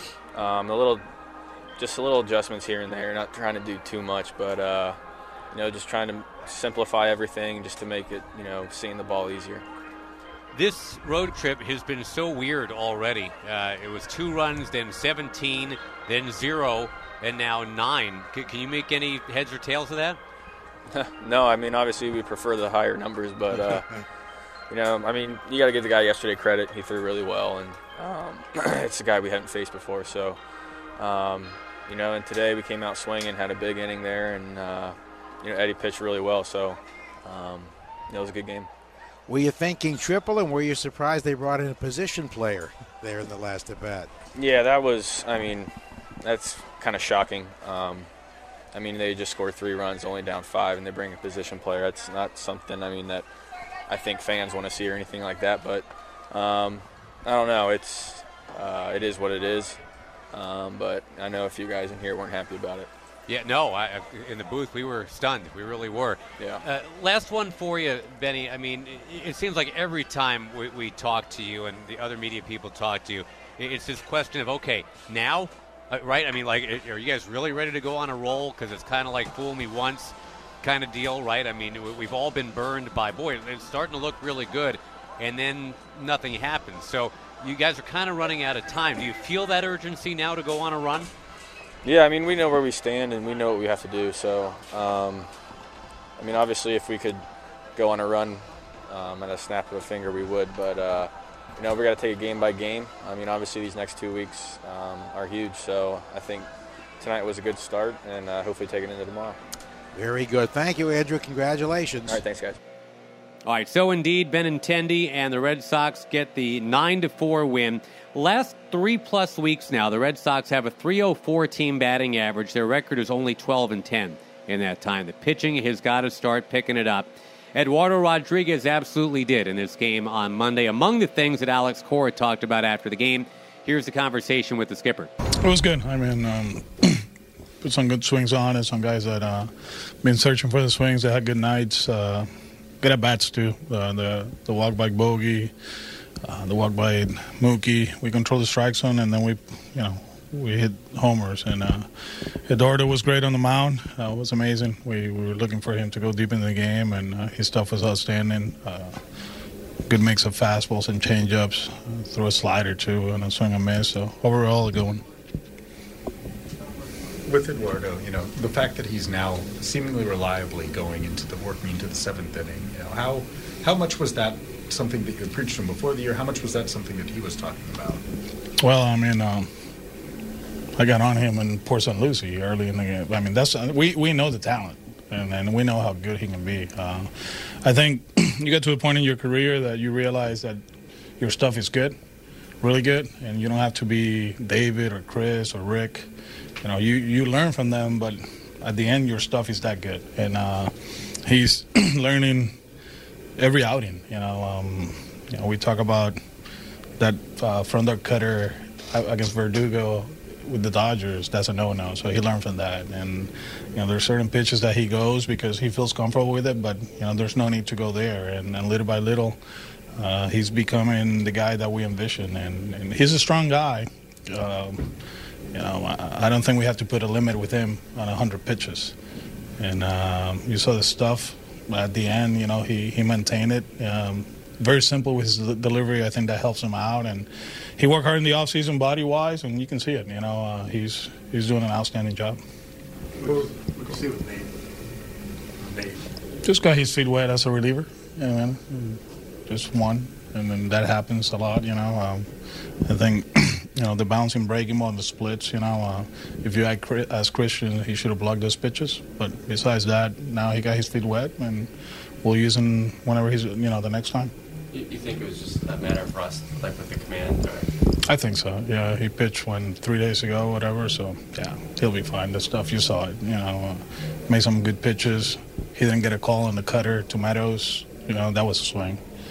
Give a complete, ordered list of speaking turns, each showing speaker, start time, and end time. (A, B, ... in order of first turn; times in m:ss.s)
0:00.3-0:01.0 A
0:01.8-0:05.0 A
0:05.5-0:09.6 A
0:10.5-0:20.2 B
0:20.9-0:23.9 A
0:24.7-0:30.4 A
0:31.0-0:38.7 A
0:39.3-0:44.1 C
0:44.4-0:45.7 A
0:46.2-0:48.1 A
0:48.7-0:53.3 A
0:53.9-0:59.8 A
1:00.3-1:02.9 A
1:03.3-1:31.1 B
1:31.8-1:35.3 A
1:36.2-1:37.2 A
1:37.8-1:46.5 A
1:47.0-1:49.4 A
1:49.9-1:52.2 C
1:52.1-1:52.6 A
1:53.4-2:15.1 B
2:15.4-2:17.0 D
2:17.6-2:22.3 D
2:22.8-2:25.5 D
2:26.2-2:31.9 D
2:32.4-2:39.0 D
2:39.9-2:45.0 D
2:47.2-2:58.0 E
2:58.6-2:59.5 D
3:00.8-3:10.6 D
3:11.2-3:12.0 D
3:12.6-3:16.1 D
3:16.6-3:22.6 D
3:23.4-3:26.2 D
3:27.0-3:39.4 D
3:40.0-3:45.0 D
3:45.5-3:48.9 D
3:49.6-4:02.4 D
4:03.2-4:04.5 F
4:05.6-4:06.1 F
4:06.4-4:12.3 D
4:12.8-4:21.7 D
4:22.2-4:24.3 D
4:24.7-4:27.7 G
4:28.0-4:39.0 D